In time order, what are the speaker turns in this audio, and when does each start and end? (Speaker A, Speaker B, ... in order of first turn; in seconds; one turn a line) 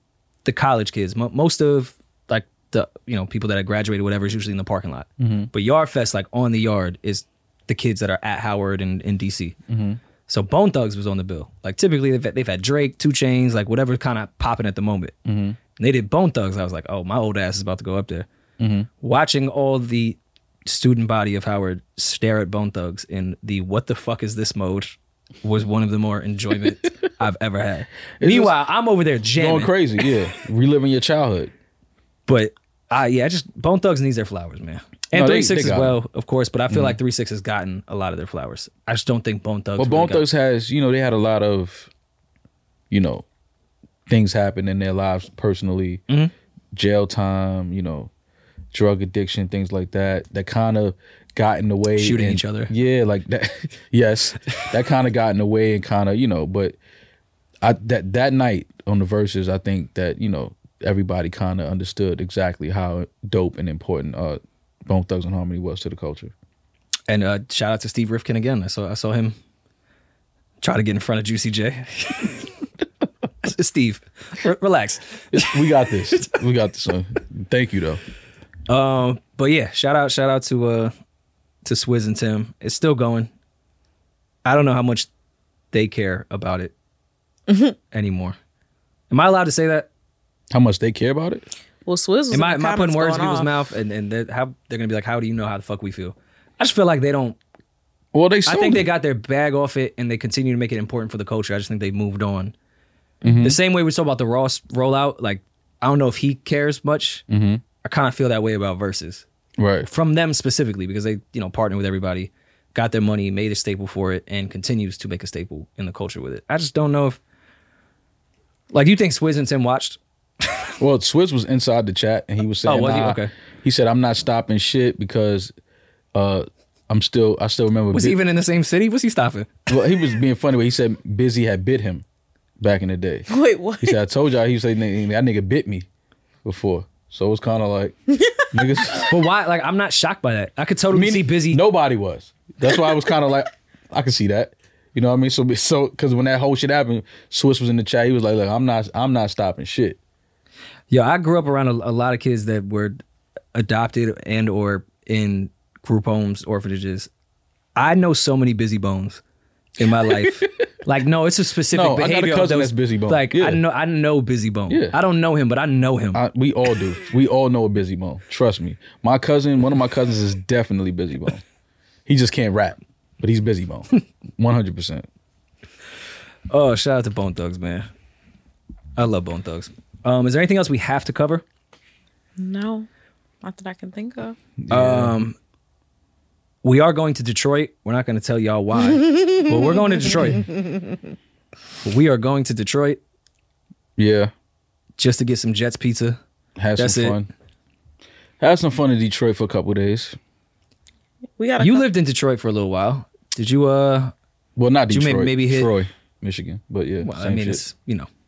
Speaker A: 0.5-9.6
Speaker B: 5.2-5.5
Speaker B: 9.7-10.0
Speaker A: 10.3-15.2
Speaker B: 15.2-15.6
Speaker A: 15.8-18.3
Speaker B: 18.6-18.9
Speaker A: 19.0-29.8
Speaker B: 28.2-28.6
Speaker B: 29.4-31.5
Speaker A: 32.3-40.3
Speaker B: 35.1-36.0
Speaker B: 36.7-37.0
Speaker B: 39.8-41.9
Speaker B: 42.9-43.2
Speaker B: 44.1-46.0
Speaker B: 46.7-48.1
Speaker B: 48.7-56.8
Speaker A: 52.0-52.7
Speaker B: 57.6-66.3
Speaker A: 67.1-69.4
Speaker A: 70.6-72.5
Speaker A: 73.4-75.6
Speaker B: 75.3-78.0
Speaker A: 78.7-80.9
Speaker A: 81.7-83.3
Speaker A: 84.5-85.1
Speaker A: 85.7-86.7
Speaker C: 87.5-87.8
Speaker A: 87.9-88.4
Speaker A: 89.1-89.9
Speaker B: 90.5-91.5
Speaker C: 91.9-93.6
Speaker A: 92.3-97.4
Speaker B: 98.1-98.9
Speaker A: 98.5-102.5
Speaker B: 103.2-103.6
Speaker A: 103.4-107.2
Speaker B: 107.3-107.6
Speaker A: 107.8-109.2
Speaker B: 109.6-109.9
Speaker A: 109.9-117.2
Speaker A: 118.7-120.7
Speaker B: 120.8-125.5
Speaker A: 122.7-123.3
Speaker B: 126.1-128.2
Speaker A: 127.9-129.5
Speaker B: 129.7-132.0
Speaker B: 132.6-133.3
Speaker C: 133.3-134.0
Speaker B: 133.8-135.9
Speaker B: 136.4-137.9
Speaker C: 138.2-138.4
Speaker B: 138.5-139.2
Speaker A: 139.0-141.6
Speaker B: 140.9-150.0
Speaker A: 150.9-153.0
Speaker A: 153.5-157.1
Speaker A: 157.8-159.2
Speaker A: 159.8-166.2
Speaker B: 160.1-160.5
Speaker B: 161.7-163.6
Speaker B: 164.7-165.0
Speaker B: 166.1-171.4
Speaker B: 172.1-175.1
Speaker A: 176.5-177.9
Speaker A: 179.0-181.4
Speaker C: 182.4-182.9
Speaker C: 183.4-184.4
Speaker B: 184.6-185.1
Speaker A: 184.7-185.4
Speaker A: 186.6-190.5
Speaker C: 188.9-191.0
Speaker A: 191.8-193.0
Speaker B: 194.0-194.3
Speaker A: 195.0-196.2
Speaker B: 196.6-197.3
Speaker A: 196.8-197.2
Speaker B: 198.4-200.2
Speaker C: 201.4-201.9
Speaker A: 201.6-204.1
Speaker B: 204.6-207.7
Speaker A: 204.9-205.7
Speaker A: 207.0-208.1